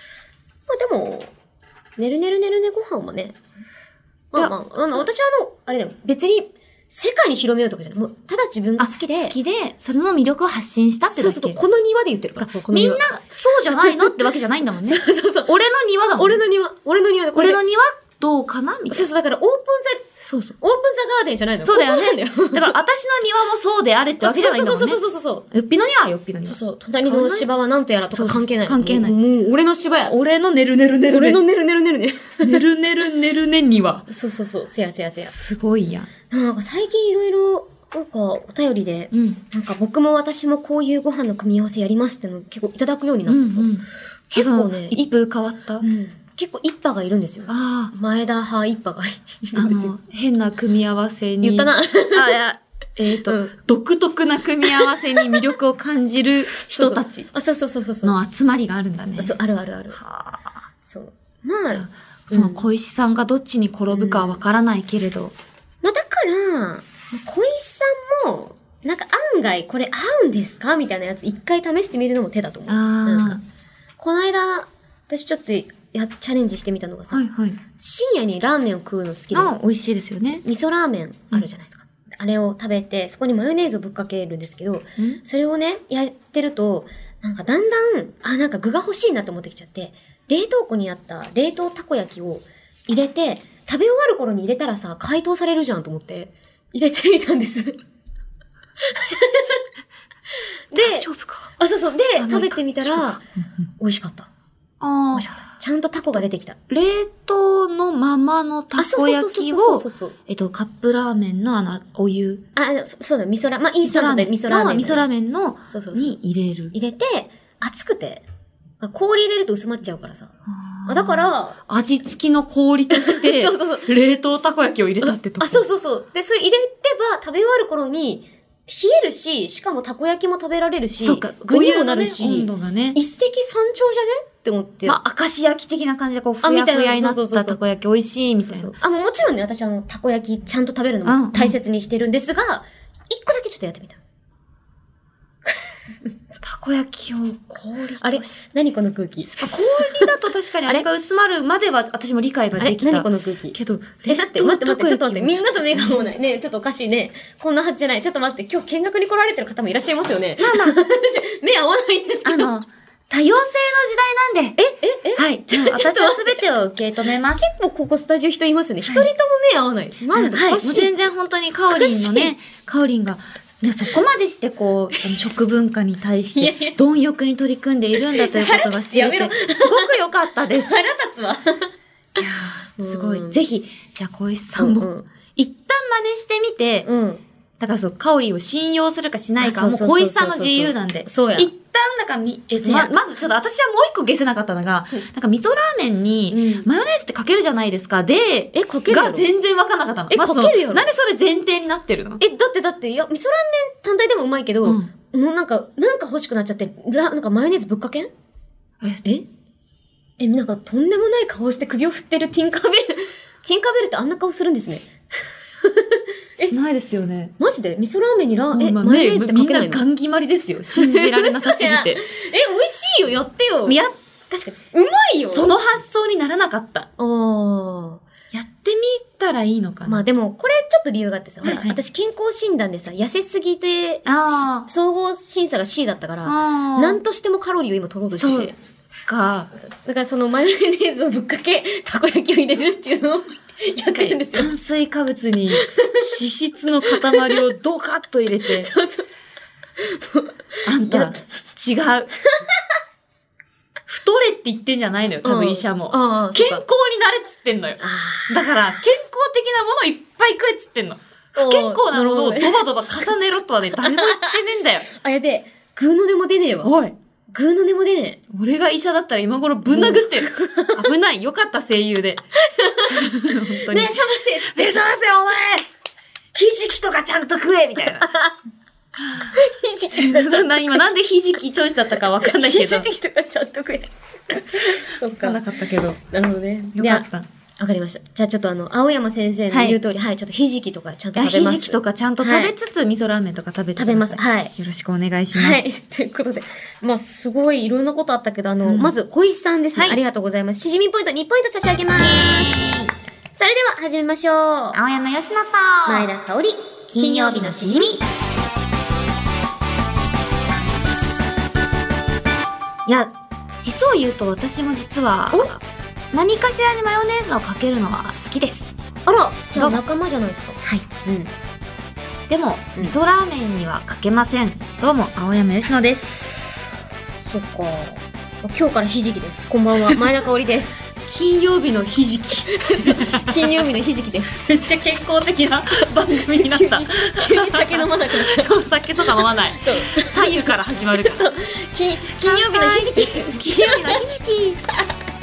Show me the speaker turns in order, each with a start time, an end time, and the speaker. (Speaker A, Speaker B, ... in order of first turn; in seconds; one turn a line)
Speaker A: 0.7-1.3
Speaker A: 2.0-3.4
Speaker A: 4.3-9.3
Speaker B: 8.8-11.6
Speaker A: 11.1-13.1
Speaker B: 12.4-16.4
Speaker A: 13.8-14.2
Speaker A: 14.9-15.5
Speaker A: 16.2-17.6
Speaker B: 17.3-19.1
Speaker A: 18.9-22.8
Speaker B: 20.2-20.5
Speaker B: 21.6-27.5
Speaker A: 24.2-25.5
Speaker A: 26.4-30.1
Speaker B: 28.1-29.2
Speaker B: 30.1-31.4
Speaker A: 31.1-32.6
Speaker B: 32.4-34.0
Speaker A: 34.1-35.3
Speaker B: 35.2-36.1
Speaker A: 36.3-43.7
Speaker B: 39.1-39.4
Speaker B: 43.3-45.9
Speaker A: 44.3-45.1
Speaker A: 45.8-49.9
Speaker B: 47.5-47.9
Speaker B: 49.5-57.3
Speaker A: 51.4-52.4
Speaker A: 53.2-53.5
Speaker A: 54.6-55.4
Speaker A: 56.6-58.2
Speaker B: 58.0-59.4
Speaker A: 59.2-60.0
Speaker B: 59.9-60.5
Speaker A: 60.9-62.6
Speaker B: 61.7-65.3
Speaker A: 63.9-64.4
Speaker A: 65.8-73.4
Speaker B: 72.7-73.4
Speaker A: 74.0-77.2
Speaker B: 77.1-77.6
Speaker A: 77.8-79.5
Speaker B: 79.3-80.4
Speaker A: 80.4-97.8
Speaker A: 98.8-99.6
Speaker A: 100.7-101.1
Speaker B: 100.7-101.5
Speaker A: 101.6-103.2
Speaker B: 102.2-103.2
Speaker A: 103.8-104.3
Speaker B: 104.8-105.4
Speaker A: 105.1-106.6
Speaker B: 106.7-112.4
Speaker A: 108.8-110.1
Speaker A: 112.5-115.0
Speaker B: 113.8-116.7
Speaker A: 115.7-116.2
Speaker A: 116.7-118.2
Speaker A: 118.8-120.3
Speaker B: 120.5-125.7
Speaker A: 120.9-121.6
Speaker A: 122.9-123.9
Speaker A: 125.0-135.0
Speaker B: 131.0-133.0
Speaker B: 134.8-138.7
Speaker A: 136.4-137.6
Speaker A: 138.4-144.0
Speaker B: 141.0-141.6
Speaker B: 146.4-148.4
Speaker A: 148.0-150.1
Speaker B: 149.3-156.1
Speaker A: 152.6-162.5
Speaker B: 160.4-160.8
Speaker B: 162.2-164.6
Speaker A: 164.6-166.4
Speaker B: 165.2-167.4
Speaker A: 167.3-170.9
Speaker B: 170.1-180.7
Speaker A: 171.7-172.3
Speaker A: 176.3-176.8
Speaker A: 178.0-179.9
Speaker A: 180.5-182.2
Speaker B: 182.2-186.9
Speaker A: 182.8-183.4
Speaker A: 184.6-185.1
Speaker A: 186.8-187.2
Speaker B: 187.6-202.2
Speaker A: 189.4-191.5
Speaker A: 192.5-193.0
Speaker A: 196.3-196.7
Speaker A: 198.5-199.3
Speaker A: 200.1-200.9
Speaker A: 202.2-208.1
Speaker A: 210.2-214.9
Speaker A: 215.6-216.5
Speaker B: 216.4-217.3
Speaker A: 217.4-219.8
Speaker B: 218.5-222.0
Speaker A: 220.7-223.8
Speaker B: 223.7-223.9
Speaker A: 224.3-225.5
Speaker B: 225.3-226.9
Speaker A: 227.0-228.0
Speaker B: 228.3-230.0
Speaker A: 229.8-238.5
Speaker B: 231.4-231.8
Speaker B: 234.1-234.7
Speaker B: 236.2-237.0
Speaker B: 238.1-238.5
Speaker B: 239.1-239.5
Speaker A: 239.8-244.5
Speaker B: 243.8-248.7
Speaker A: 245.5-246.1
Speaker A: 246.8-247.4
Speaker A: 248.4-249.1
Speaker A: 249.8-251.2
Speaker B: 250.7-252.1
Speaker A: 252.2-252.6
Speaker B: 253.9-264.9
Speaker A: 255.2-256.6
Speaker A: 257.8-258.5
Speaker A: 261.4-262.6
Speaker A: 263.8-266.7
Speaker B: 266.6-266.9
Speaker A: 267.3-268.2
Speaker B: 268.3-272.2
Speaker A: 269.7-270.8
Speaker A: 272.4-274.6
Speaker B: 272.9-275.7
Speaker B: 276.3-278.1
Speaker A: 277.9-278.3
Speaker B: 279.0-279.4
Speaker A: 279.3-280.8
Speaker B: 279.9-282.9
Speaker A: 282.2-285.4
Speaker B: 284.6-286.0
Speaker A: 286.1-287.1
Speaker B: 286.7-287.3
Speaker A: 287.6-292.5
Speaker B: 289.5-289.8
Speaker B: 291.1-295.6
Speaker A: 293.8-294.5
Speaker A: 295.3-302.6
Speaker B: 298.6-298.9
Speaker B: 299.7-300.0
Speaker B: 302.0-302.9
Speaker A: 303.4-304.8
Speaker B: 304.7-306.1
Speaker A: 305.8-308.0
Speaker B: 306.9-308.0
Speaker B: 312.9-318.8
Speaker A: 319.1-321.3
Speaker B: 319.6-319.8
Speaker B: 322.3-326.4
Speaker A: 327.2-330.8
Speaker B: 331.1-333.6
Speaker A: 332.5-334.4
Speaker B: 334.3-341.2
Speaker A: 336.1-344.0
Speaker B: 342.1-344.6